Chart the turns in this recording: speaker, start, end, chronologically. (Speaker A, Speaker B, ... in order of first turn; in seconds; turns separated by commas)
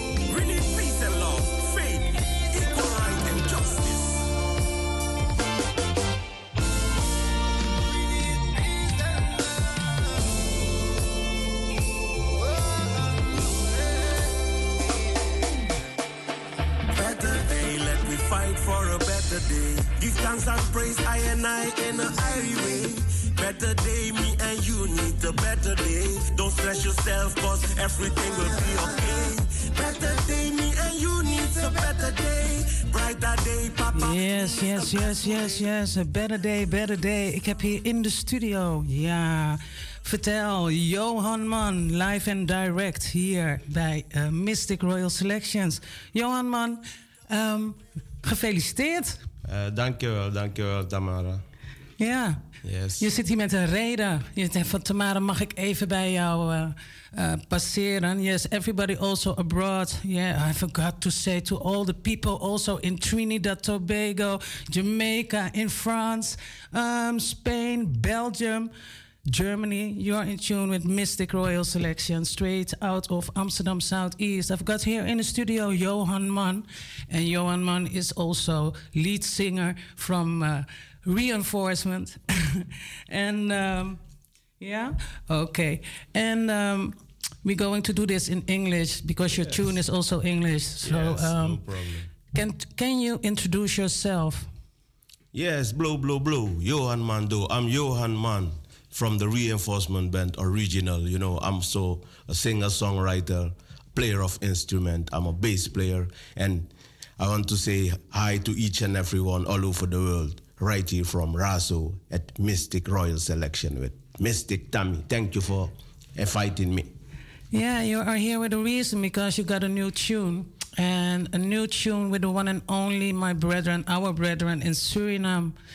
Speaker A: 0.3-4.2, Speaker A: 16.9-35.6, Speaker B: 33.9-49.2, Speaker C: 49.4-51.4, Speaker B: 52.0-52.4, Speaker C: 52.6-53.1, Speaker B: 53.0-68.7, Speaker B: 69.3-84.0, Speaker B: 84.6-91.6, Speaker C: 89.3-89.7, Speaker C: 90.8-92.1, Speaker B: 92.3-94.5, Speaker C: 95.3-116.9, Speaker B: 117.5-125.5